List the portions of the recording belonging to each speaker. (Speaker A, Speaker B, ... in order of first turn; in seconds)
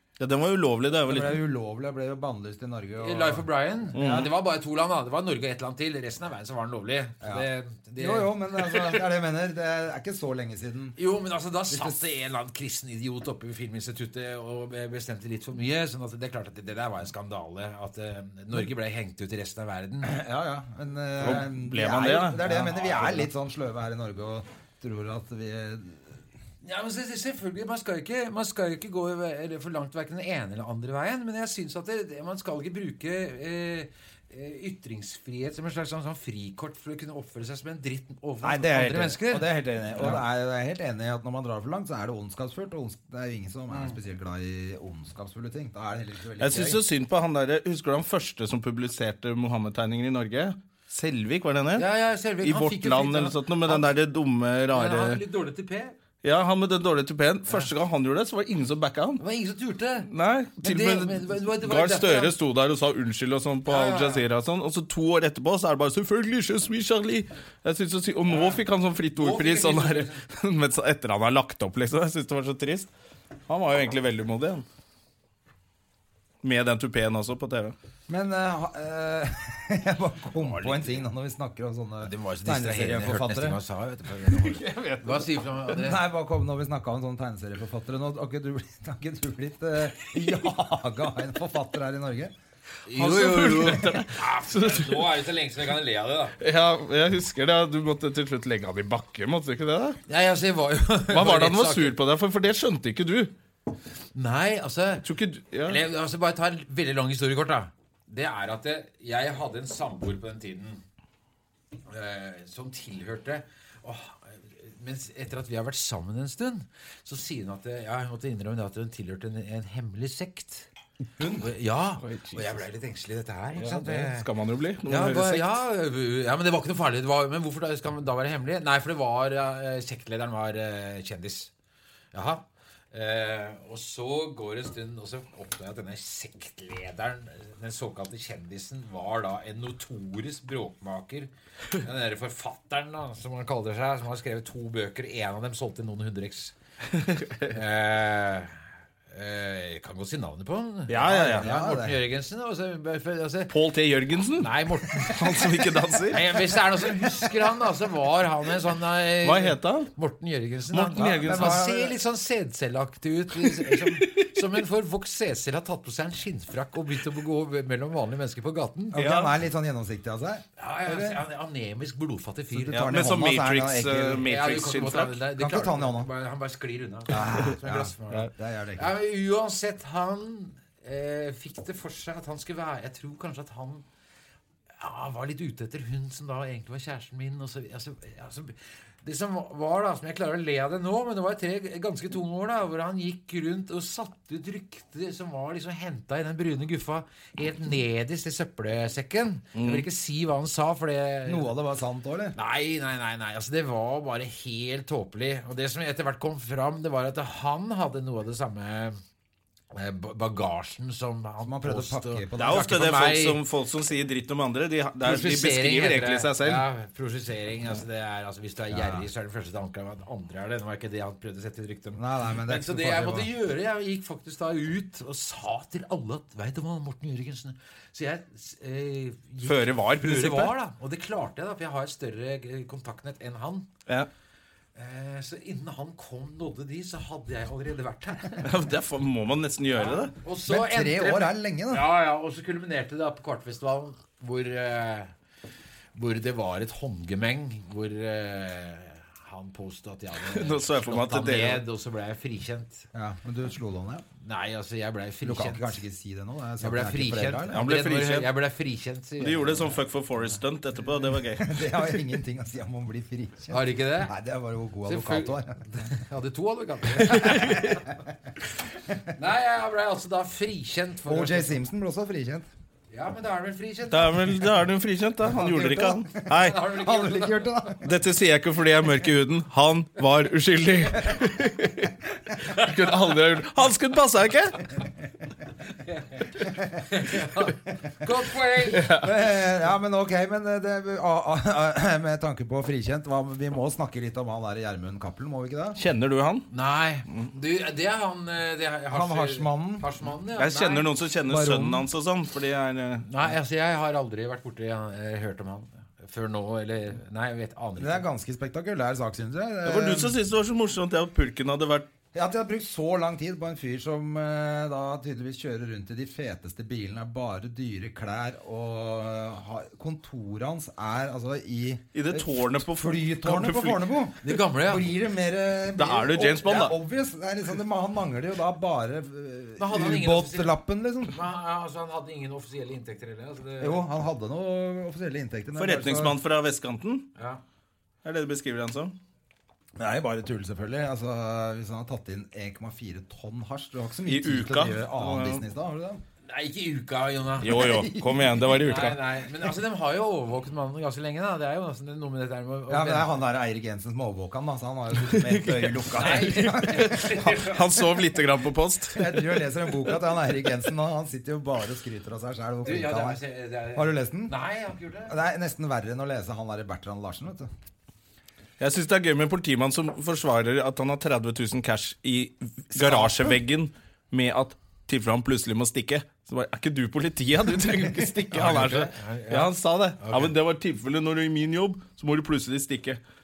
Speaker A: 0.2-1.4, 3.9-4.3, 21.2-22.4, 46.4-51.9, 52.4-55.2, 56.2-59.2, 60.1-72.9, 73.5-74.7, 76.4-77.8, 84.7-85.0, 92.9-95.1, 96.4-100.0, 101.1-103.3, 105.0-105.8, 122.0-122.6, 123.6-125.6, 146.9-147.5, 150.9-151.5, 153.5-156.5, 159.2-159.9, 160.7-161.6, 163.7-164.3, 168.9-169.3, 172.7-175.2, 199.6-199.9, 212.4-216.7, 229.4-230.5, 238.4-240.1, 250.2-251.7, 257.5-258.3, 259.2-261.6, 267.1-267.7, 273.9-276.6, 277.8-284.6, 288.7-289.1, 295.8-296.5, 300.4-303.1, 309.6-311.9, 321.9-323.9, 325.8-326.8, 335.6-337.1, 338.0-339.0, 344.1-345.4, 347.4-349.0, 355.1-359.3, 368.6-383.0
Speaker B: 1.1-3.5, 7.2-11.0, 11.7-12.0, 20.0-26.1, 38.4-46.8, 78.1-83.6, 85.7-92.3, 121.2-121.5, 151.0-152.0, 161.1-161.9, 168.9-171.2, 172.5-174.3, 175.4-176.1, 177.1-178.9, 201.3-202.4, 211.4-212.7, 218.7-219.1, 222.0-223.3, 240.5-241.9, 252.9-254.1, 255.2-257.7, 261.4-265.6, 271.1-272.5, 275.2-277.9, 289.0-295.8, 298.9-299.9, 301.3-301.9, 307.8-310.2, 312.1-331.2, 333.6-336.1, 339.8-346.0, 347.5-348.2, 352.7-357.4, 358.9-363.2, 363.7-364.3, 365.1-367.5, 372.8-373.3
Speaker C: 3.0-9.1, 11.0-20.2, 22.4-23.3, 26.6-40.2, 43.7-44.0, 51.8-53.9, 54.7-55.9, 59.2-62.4, 63.7-64.3, 68.3-68.6, 69.2-70.2, 80.4-81.1, 82.0-86.0, 92.9-96.4, 100.1-102.0, 104.2-105.1, 105.7-110.8, 111.9-120.7, 121.4-124.3, 124.9-131.5, 132.1-146.6, 147.5-148.6, 149.1-153.5, 154.4-169.1, 170.6-173.0, 174.2-183.8, 184.8-201.5, 202.3-209.0, 209.7-213.4, 215.0-233.7, 234.8-238.5, 239.8-245.1, 245.9-252.9, 254.2-255.8, 256.6-259.8, 263.5-264.1, 264.9-267.9, 269.1-271.6, 272.9-274.5, 276.3-277.7, 282.6-283.0, 285.8-288.9, 296.5-300.9, 303.1-308.1, 324.2-324.9, 329.6-330.5, 331.1-333.9, 337.2-337.4, 346.3-353.2, 355.9-357.9, 362.6-365.1, 378.3-380.3